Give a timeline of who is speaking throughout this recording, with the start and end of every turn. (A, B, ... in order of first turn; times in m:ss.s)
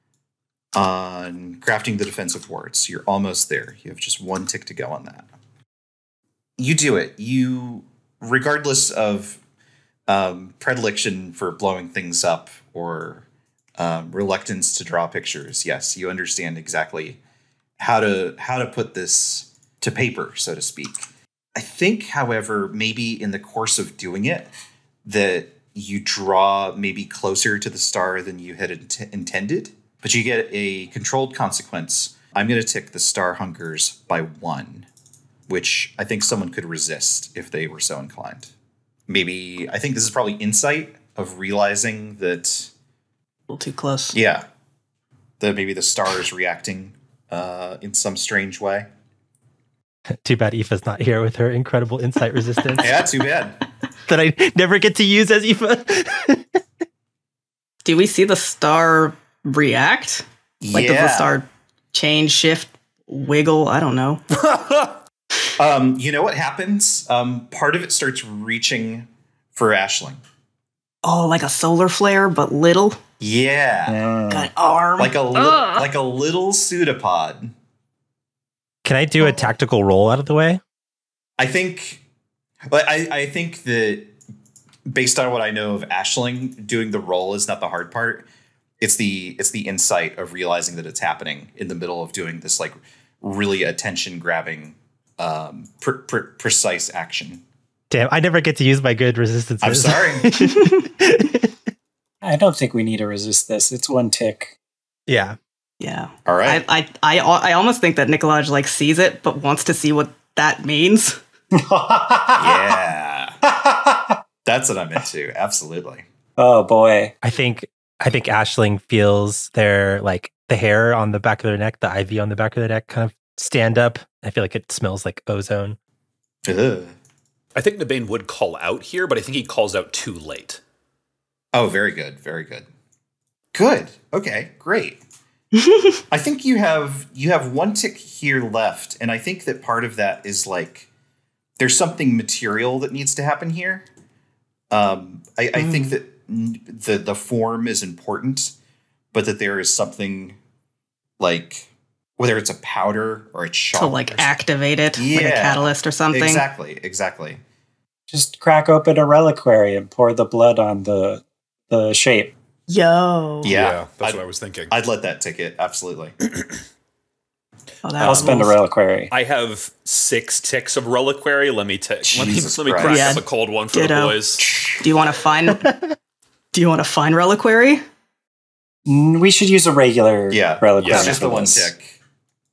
0:00.7-0:05.3 A
0:06.6-0:09.4 A
0:10.1-0:13.2 A
0:13.8-0:17.2 A
0:17.8-0:21.0 A
0:21.6-0:24.5 A
0:25.0-0:34.9 A
0:35.5-0:38.5 A
0:39.1-0:42.7 A
0:43.5-0:44.1 B
0:44.1-0:44.4 A
0:45.4-0:48.9 A
0:50.1-0:52.9 C
0:52.8-0:53.6 A
0:54.1-0:56.6 C
0:57.8-1:04.2 B
1:00.6-1:01.4 A
1:04.3-1:05.0 D
1:05.6-1:10.2 A
1:11.0-1:13.0 B
1:13.2-1:14.0 A
1:13.9-1:14.5 E
1:14.3-1:15.8 B
1:15.0-1:17.5 A
1:18.8-1:20.6 C
1:21.4-1:22.0 A
1:22.7-1:24.1 A
1:24.9-1:28.2 A
1:28.8-1:37.4 A
1:37.9-1:41.5 C
1:39.6-1:40.4 A
1:40.4-1:40.8 B
1:42.2-1:44.5 E
1:45.1-1:45.4 C
1:45.8-1:51.2 B
1:46.2-1:46.6 A
1:51.5-1:52.8 E
1:52.4-1:53.4 A
1:53.4-1:54.2 E
1:54.4-1:56.0 A
1:56.4-1:57.1 E
1:57.2-2:05.8 C
2:06.4-2:06.9 A
2:07.5-2:10.6 D
2:11.5-2:12.6 A
2:13.5-2:15.0 A
2:15.5-2:16.0 B
2:16.1-2:20.9 A
2:21.6-2:23.8 A
2:24.7-2:28.5 A
2:25.6-2:26.0 B
2:29.1-2:30.4 A
2:31.2-2:34.3 A
2:33.7-2:36.4 B
2:35.0-2:37.4 A
2:38.1-2:42.3 E
2:42.7-2:43.5 B
2:43.4-2:46.1 A
2:43.4-2:44.7 D
2:47.8-2:48.6 B
2:48.0-2:48.4 D
2:48.0-2:49.1 E
2:49.1-2:54.4 D
2:52.1-2:53.2 A
2:52.8-2:55.7 B
2:54.4-2:54.9 A
2:56.5-2:57.8 B
2:58.8-3:01.7 E
3:00.3-3:01.9 A
3:00.8-3:01.2 D